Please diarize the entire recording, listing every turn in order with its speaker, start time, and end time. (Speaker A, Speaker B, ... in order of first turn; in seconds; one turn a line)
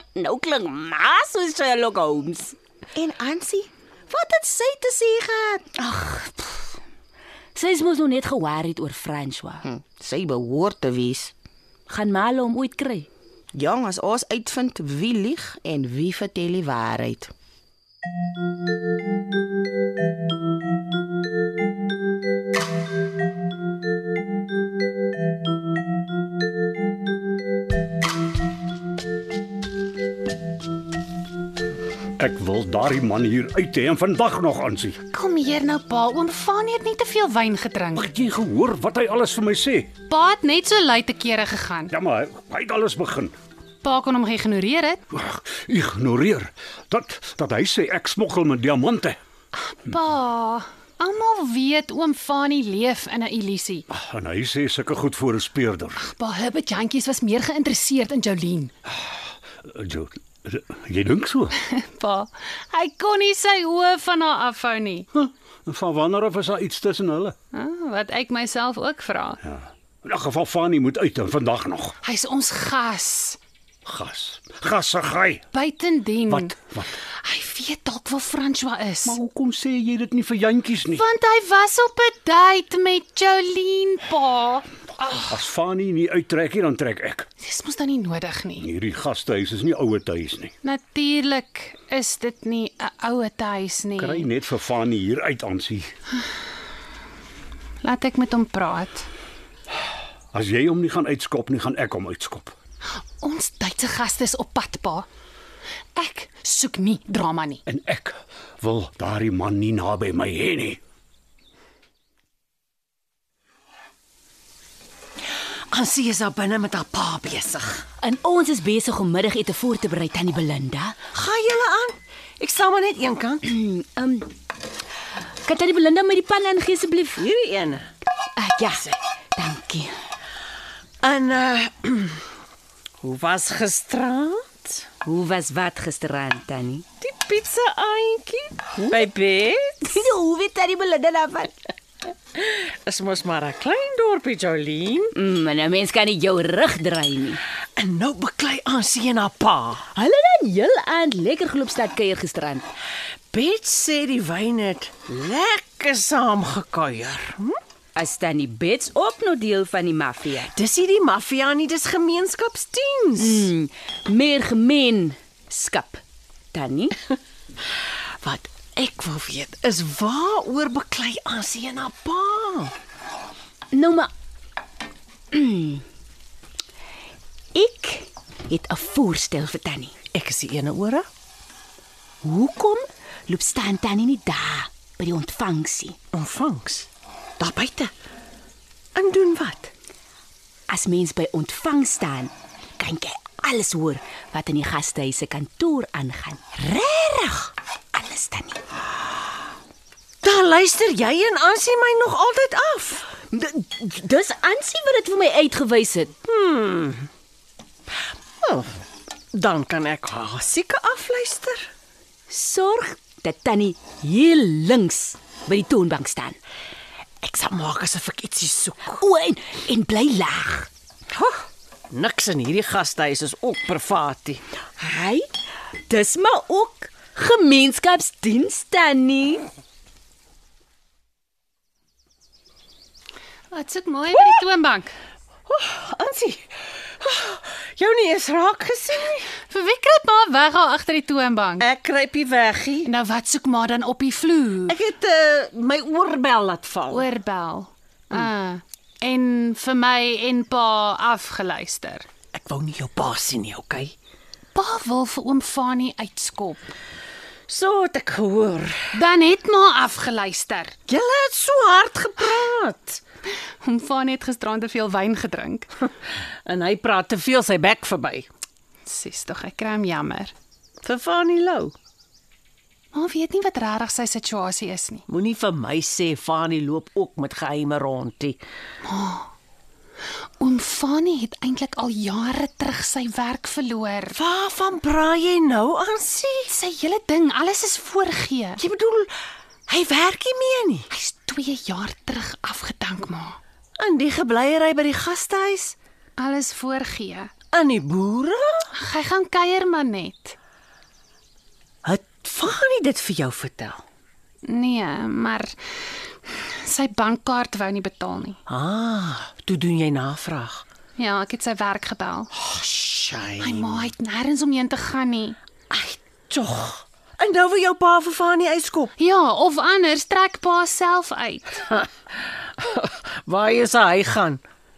Speaker A: 0.1-2.5
Speaker B: 2.9-5.6
Speaker A: 5.8-6.8
Speaker A: 7.5-9.6
Speaker B: 9.6-11.3
Speaker A: 11.9-13.1
Speaker B: 13.5-17.3
Speaker C: 32.2-35.0
Speaker D: 35.1-38.1
Speaker C: 38.0-39.9
Speaker D: 40.1-41.9
Speaker C: 41.9-43.3
Speaker D: 43.8-45.0
Speaker C: 45.1-49.2
Speaker D: 49.5-53.9
Speaker C: 53.9-56.0
Speaker D: 56.0-58.7
Speaker C: 58.9-61.6
Speaker D: 61.7-65.1
Speaker C: 65.1-67.3
Speaker D: 67.5-69.4
Speaker C: 69.4-71.9
Speaker D: 72.0-73.4
Speaker C: 73.8-75.4
Speaker D: 75.5-76.5
Speaker C: 76.3-76.9
Speaker D: 77.2-79.2
Speaker C: 79.0-81.0
Speaker D: 81.0-85.3
Speaker C: 85.3-87.3
Speaker D: 87.4-88.7
Speaker C: 88.6-90.5
Speaker D: 90.6-94.3
Speaker C: 94.0-95.9
Speaker D: 97.8-99.1
Speaker C: 100.3-102.5
Speaker D: 103.2-105.1
Speaker D: 106.0-107.6
Speaker C: 107.7-110.8
Speaker E: 115.7-117.8
Speaker A: 118.0-121.0
Speaker E: 121.1-123.4
Speaker A: 123.4-124.3
Speaker A: 125.4-127.2
Speaker E: 127.2-127.9
Speaker A: 128.3-129.9
Speaker E: 131.0-132.2
Speaker E: 133.0-134.9
Speaker A: 135.0-136.8
Speaker E: 137.0-139.9
Speaker A: 139.8-141.5
Speaker E: 142.3-145.1
Speaker A: 145.1-147.4
Speaker E: 147.8-149.8
Speaker A: 149.9-152.6
Speaker E: 153.3-157.6
Speaker A: 157.9-160.5
Speaker E: 160.5-163.5
Speaker A: 163.2-166.0
Speaker A: 166.5-167.0
Speaker E: 168.2-172.7
Speaker A: 173.7-174.1
Speaker A: 175.3-175.8
Speaker A: 177.5-179.9
Speaker E: 180.1-181.0
Speaker A: 182.2-186.0
Speaker E: 186.1-186.9
Speaker E: 187.4-187.9
Speaker E: 188.9-189.7
Speaker A: 190.7-198.6
Speaker E: 200.2-203.1
Speaker A: 203.3-206.2
Speaker E: 206.2-207.1
Speaker E: 208.4-208.8
Speaker E: 209.3-211.7
Speaker A: 212.3-216.4
Speaker E: 217.2-219.0
Speaker A: 218.9-220.7
Speaker E: 221.1-224.4
Speaker A: 224.8-225.3
Speaker A: 225.9-229.4
Speaker D: 233.5-234.9
Speaker E: 234.1-234.4
Speaker E: 235.5-239.4
Speaker D: 239.5-241.7
Speaker E: 241.6-242.9
Speaker D: 242.8-244.8
Speaker E: 244.7-247.1
Speaker D: 246.9-252.1
Speaker E: 252.3-253.9
Speaker D: 254.5-256.7
Speaker E: 257.5-259.0
Speaker D: 258.9-260.7
Speaker E: 260.9-263.0
Speaker D: 263.6-265.7
Speaker E: 266.4-268.3
Speaker D: 268.9-270.3
Speaker E: 270.8-271.7
Speaker D: 272.9-275.1
Speaker E: 275.1-278.4
Speaker D: 278.8-279.3
Speaker D: 280.4-284.2
Speaker E: 284.1-286.5
Speaker D: 286.5-288.6
Speaker E: 288.6-289.1
Speaker E: 289.7-290.9
Speaker D: 290.9-293.4
Speaker E: 293.8-295.8
Speaker D: 296.2-297.3
Speaker E: 297.5-298.7
Speaker D: 298.7-300.4
Speaker E: 301.8-303.8
Speaker D: 304.5-305.5
Speaker D: 306.3-308.4
Speaker E: 308.5-310.6
Speaker D: 311.0-312.3
Speaker E: 312.3-313.9
Speaker D: 313.4-315.4
Speaker E: 315.7-318.9
Speaker D: 319.0-321.6
Speaker E: 321.6-324.4